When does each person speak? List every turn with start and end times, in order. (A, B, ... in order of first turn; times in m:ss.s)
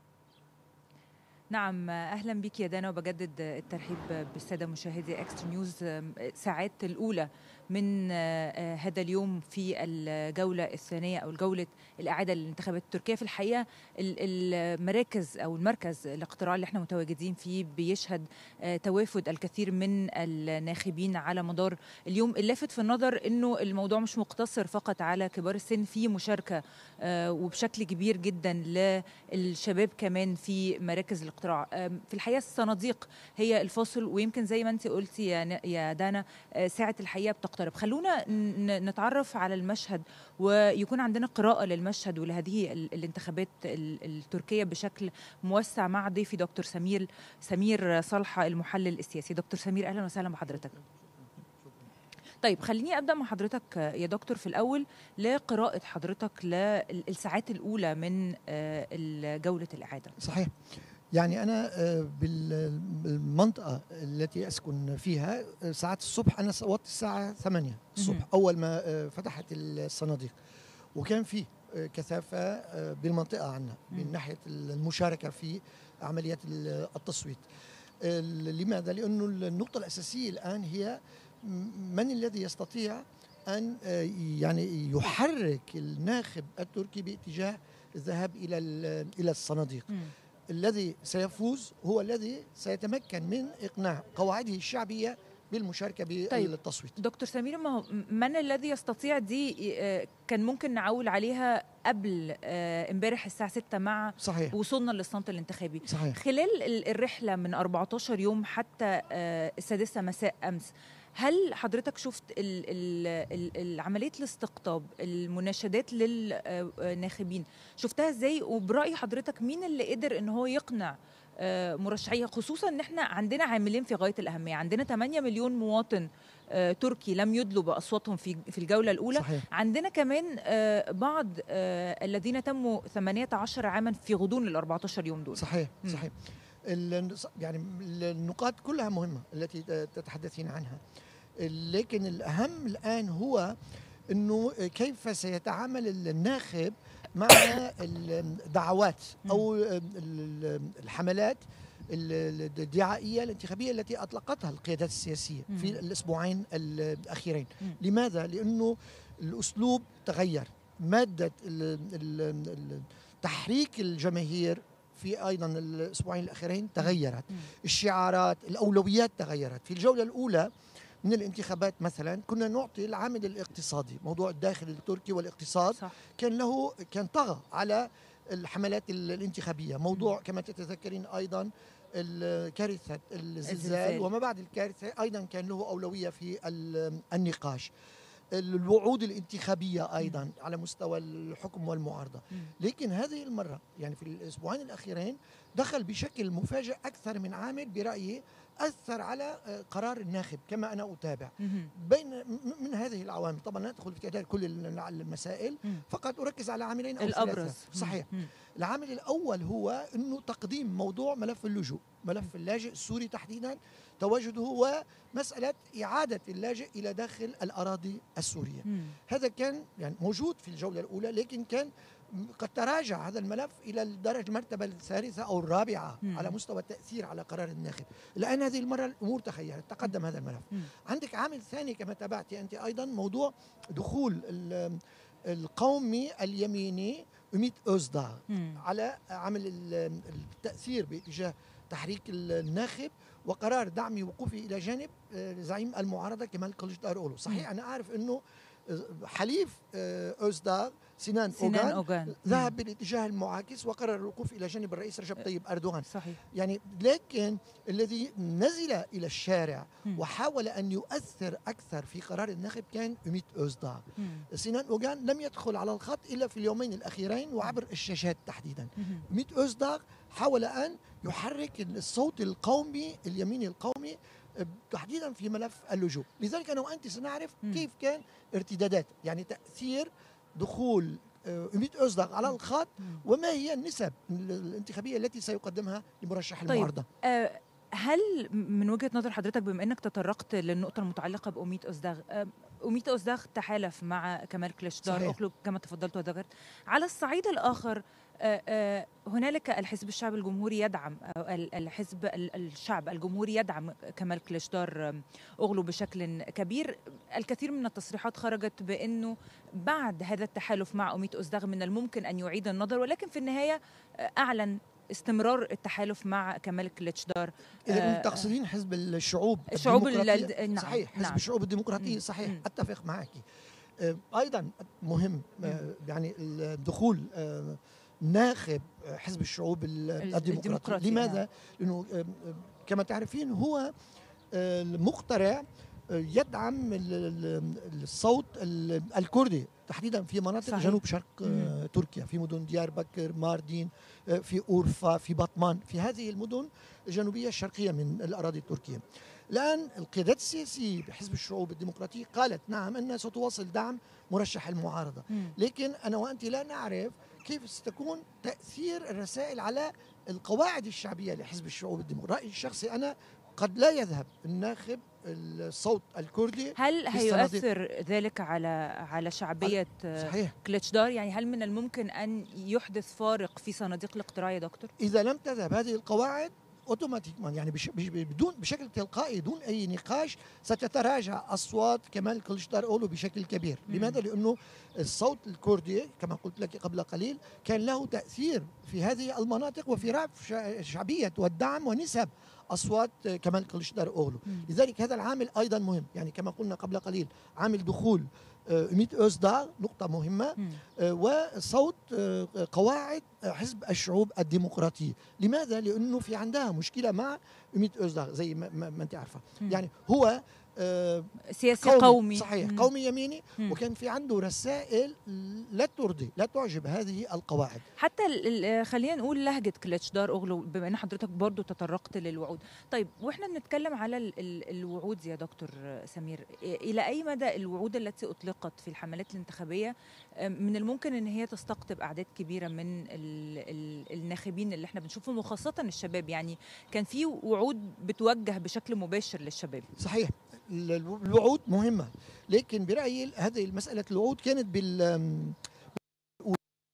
0:01.5-0:50.8 A
0:52.4-1:00.1 A
1:00.2-1:00.5 B
1:01.1-1:10.4 B
1:08.0-1:08.3 A
1:10.9-1:17.4 B
1:18.0-1:29.9 B
1:30.5-1:37.0 B
1:36.3-2:16.0 A
1:44.2-1:44.6 B
1:45.8-1:46.2 B
2:09.1-2:09.4 B
2:15.3-2:20.8 B
2:21.4-2:23.5 B
2:24.1-2:50.5 B
2:35.5-2:35.8 A
2:46.8-2:47.5 A
2:51.0-3:07.7 B
3:03.5-3:04.1 A
3:08.3-4:46.9 B
3:21.4-3:21.7 A
3:27.0-3:28.3 A
3:38.7-3:39.0 A
3:46.0-3:46.4 A
3:58.3-3:58.6 A
4:11.3-4:12.5 A
4:15.9-4:16.2 A
4:24.0-4:24.2 A
4:46.5-5:18.3 A
4:54.8-4:55.2 B
5:17.7-5:23.2 B
5:19.5-5:21.2 A
5:21.8-5:22.4 A
5:23.8-5:33.7 B
5:30.0-5:31.2 A
5:34.3-6:07.4 B
5:40.4-5:41.5 A
6:06.6-6:14.7 A
6:09.4-6:10.4 B
6:14.8-6:57.6 B
6:23.7-6:24.0 A
6:51.4-6:52.7 A
6:57.8-7:19.7 A
7:19.8-7:25.4 B